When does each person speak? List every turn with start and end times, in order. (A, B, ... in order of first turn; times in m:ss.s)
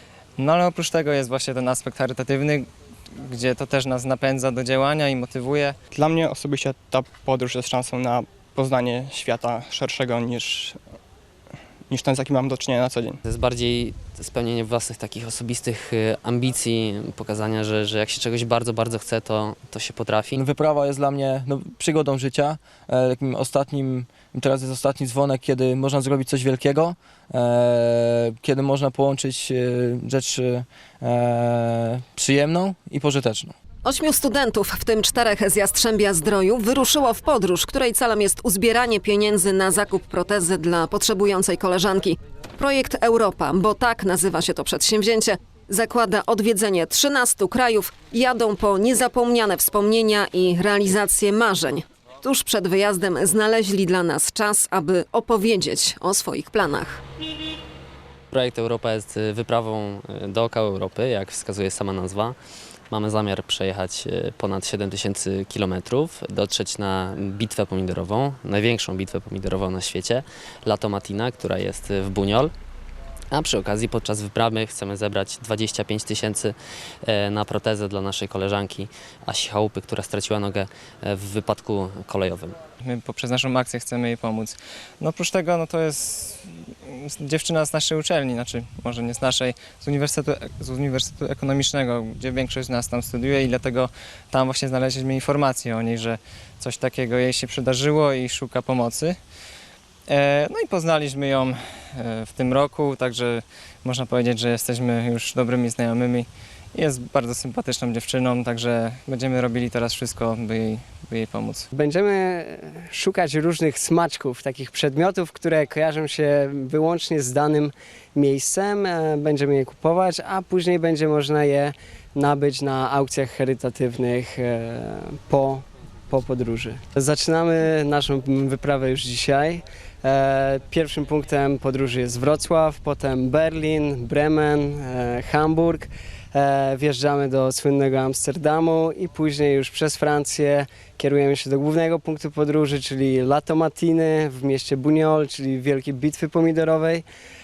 0:00.4-0:05.8 A
0:05.9-0:10.8 B
0:11.9-0:13.2 B
0:13.2-0:20.4 C
0:20.3-0:33.5 D
0:33.8-0:57.0 E
0:58.3-1:02.4 C
1:02.9-1:12.5 C
1:13.3-1:22.6 C
1:22.8-1:39.2 A
1:40.1-1:51.7 A
1:51.7-2:27.0 F